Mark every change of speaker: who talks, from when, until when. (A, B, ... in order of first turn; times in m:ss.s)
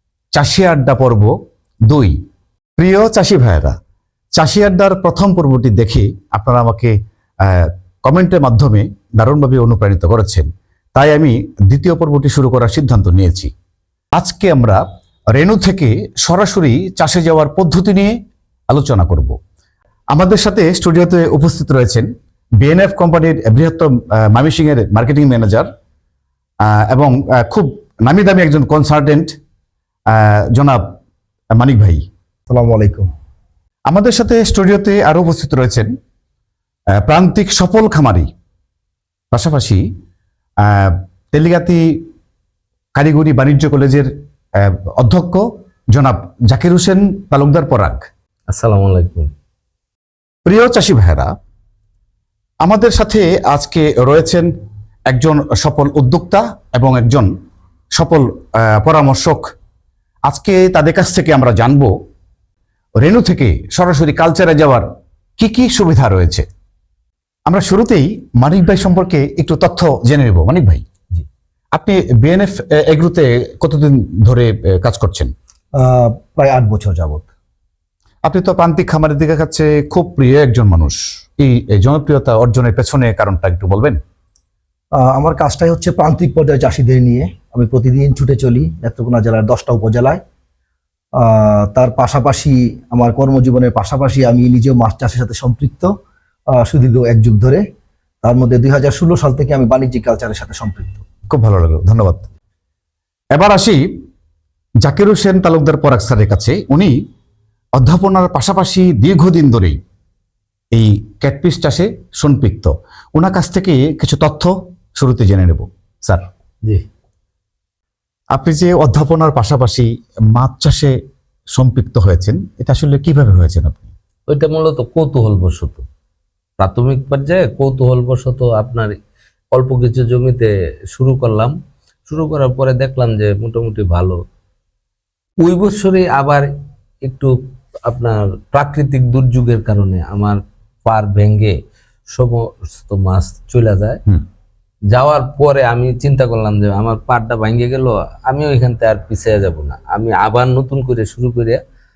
0:00.4-0:01.3 A
0:01.9-0:02.2 A
0:02.8-0:03.8 A
0:04.4-0:13.5 A
0:14.1-0:18.1 A
0:18.7-0:19.4 A
0:20.1-0:22.1 A
0:22.6-0:25.7 A
0:26.6-0:29.3 A
0:30.1-0:30.8 A
0:31.6-0:32.0 A
0:32.5-0:33.1 B
0:33.9-0:35.9 A
0:37.0-0:38.3 A
0:39.3-0:39.8 A
0:40.6-0:42.1 A
0:43.0-0:48.0 A
0:48.5-0:49.3 C
0:50.5-0:51.3 A
0:52.6-0:54.5 A
0:55.1-0:57.3 A
0:57.9-0:59.5 A
1:00.3-1:01.9 A
1:03.0-1:04.9 A
1:05.4-1:06.5 A
1:07.5-1:10.8 A
1:11.7-1:15.3 A
1:15.8-1:17.3 B
1:18.2-1:24.0 A
1:25.0-1:30.2 B
1:31.2-1:35.9 B
1:36.5-1:37.6 B
1:38.2-1:41.0 B
1:41.3-1:42.3 A
1:43.3-1:43.9 A
1:44.8-1:47.0 A
1:47.8-1:49.8 A
1:50.7-1:56.3 A
1:58.3-2:01.0 A
2:01.5-2:03.9 A
2:04.3-2:05.8 C
2:06.6-2:09.0 C
2:09.5-2:11.6 C
2:12.1-2:14.2 C
2:15.4-2:16.5 C
2:17.0-2:24.0 C
2:24.9-2:31.6 C